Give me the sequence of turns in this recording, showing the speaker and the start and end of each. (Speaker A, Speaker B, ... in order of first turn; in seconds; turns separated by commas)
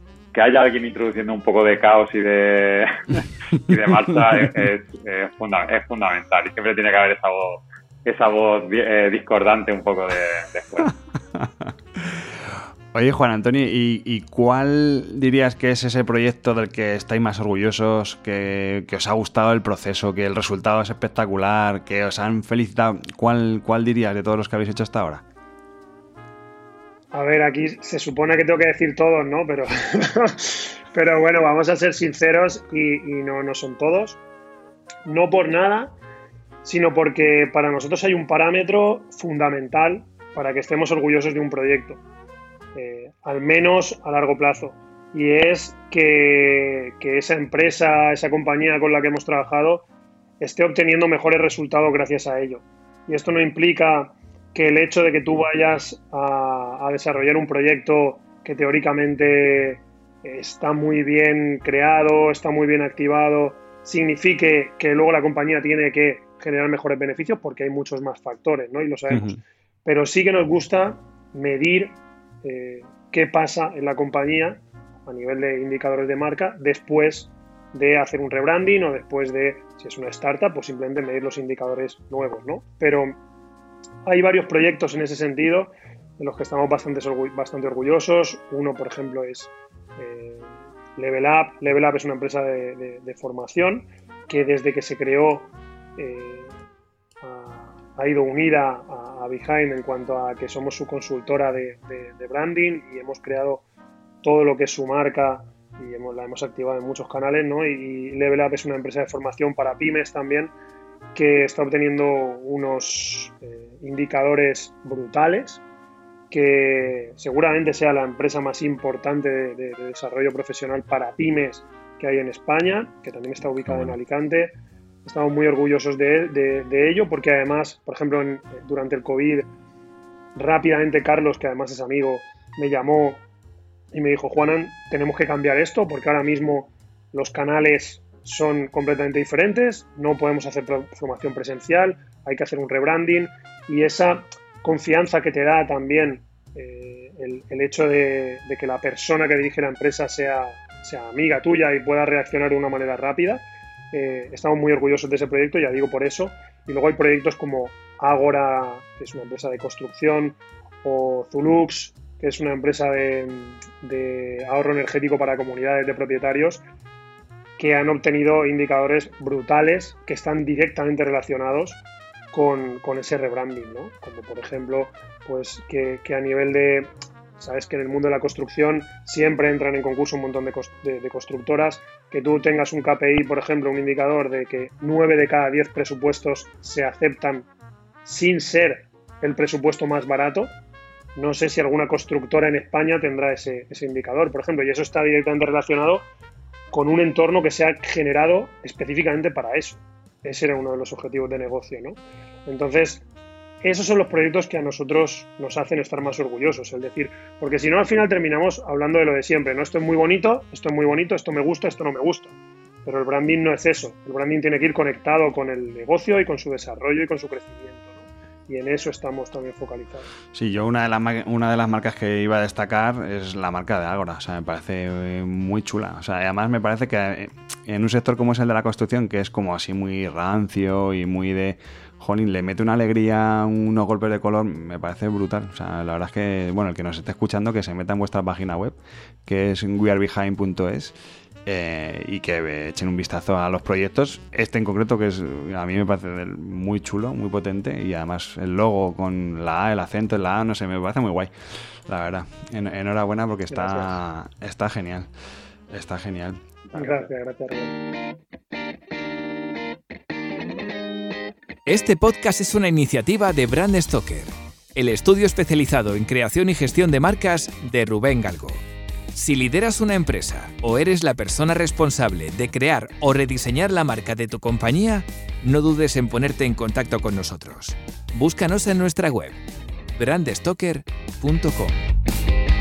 Speaker A: 0.3-10.9, Speaker B: 11.3-25.2, Speaker C: 27.1-34.2, Speaker C: 35.1-35.9, Speaker C: 36.6-42.0, Speaker C: 42.8-49.9, Speaker C: 50.4-83.2, Speaker B: 69.1-69.4, Speaker C: 84.0-96.6, Speaker C: 97.2-103.6, Speaker C: 104.2-110.5, Speaker C: 111.2-115.6, Speaker C: 116.3-124.5, Speaker B: 123.7-124.0, Speaker C: 125.0-129.5, Speaker C: 130.3-133.2, Speaker C: 133.9-166.6, Speaker C: 167.6-171.8, Speaker C: 172.3-187.5, Speaker C: 188.1-190.6, Speaker C: 191.2-196.1, Speaker C: 196.7-203.0, Speaker C: 203.6-212.3, Speaker C: 212.8-220.1, Speaker B: 220.3-240.9, Speaker B: 241.5-255.1, Speaker C: 253.5-253.9, Speaker B: 255.7-256.4, Speaker C: 256.7-257.8, Speaker D: 261.7-268.6, Speaker D: 269.1-279.4, Speaker D: 280.0-281.8